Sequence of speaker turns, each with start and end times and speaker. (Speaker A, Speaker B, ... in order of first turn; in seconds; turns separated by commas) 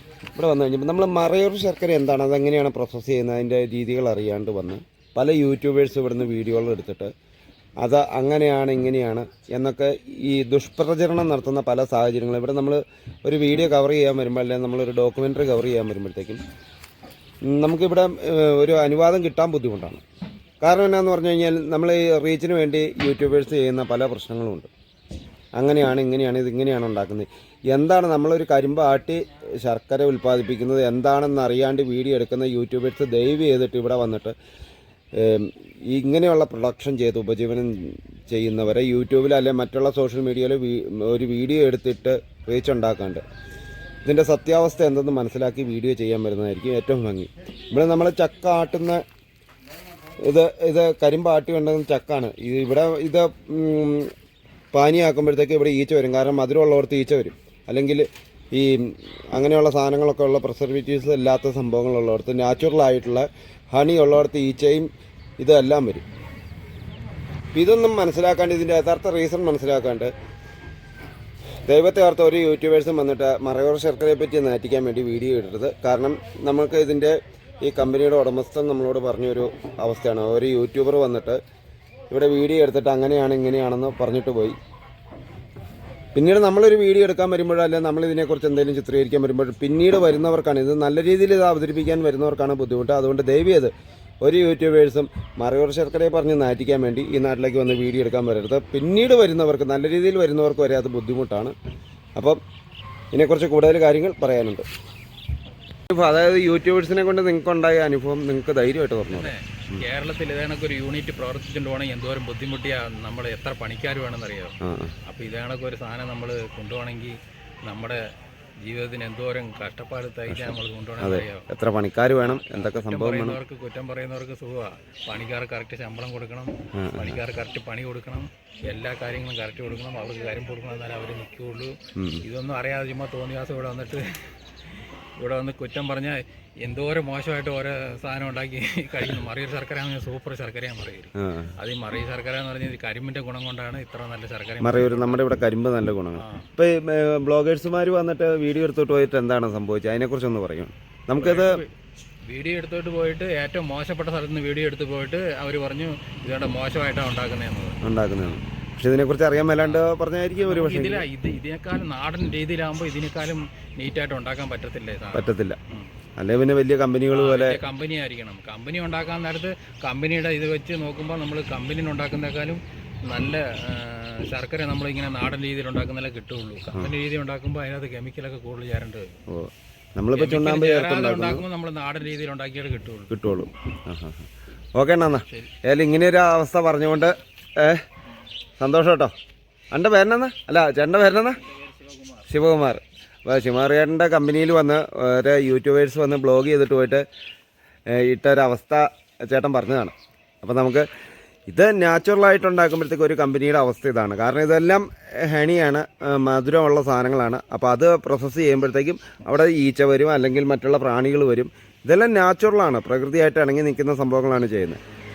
Speaker A: 0.3-7.1, Speaker A: 7.8-16.4, Speaker A: 17.5-20.0, Speaker A: 20.6-24.7, Speaker A: 25.6-34.3, Speaker A: 35.1-43.2, Speaker A: 44.0-49.0, Speaker A: 50.2-54.1, Speaker A: 54.7-64.9, Speaker A: 65.4-66.0, Speaker A: 67.5-70.1, Speaker A: 71.7-81.4, Speaker A: 82.1-84.6, Speaker A: 86.1-101.5, Speaker A: 103.1-104.6, Speaker A: 105.9-109.8, Speaker B: 109.1-118.0, Speaker A: 114.6-114.9, Speaker B: 118.6-121.5, Speaker A: 120.3-123.4, Speaker B: 122.2-134.3, Speaker A: 126.7-127.2, Speaker A: 131.9-132.2, Speaker B: 135.2-145.2, Speaker A: 141.2-141.5, Speaker A: 144.6-151.6, Speaker B: 146.2-146.5, Speaker B: 151.2-151.7, Speaker B: 152.3-157.8, Speaker A: 157.8-161.0, Speaker B: 159.6-159.8, Speaker B: 160.4-165.9, Speaker A: 165.1-165.6, Speaker A: 166.2-167.6, Speaker B: 167.1-179.2, Speaker A: 179.3-181.4, Speaker B: 180.1-183.1, Speaker A: 183.1-187.8, Speaker A: 188.6-189.1, Speaker A: 189.7-191.4, Speaker B: 191.4-192.2, Speaker A: 192.3-197.1, Speaker A: 197.9-200.9, Speaker A: 201.5-214.8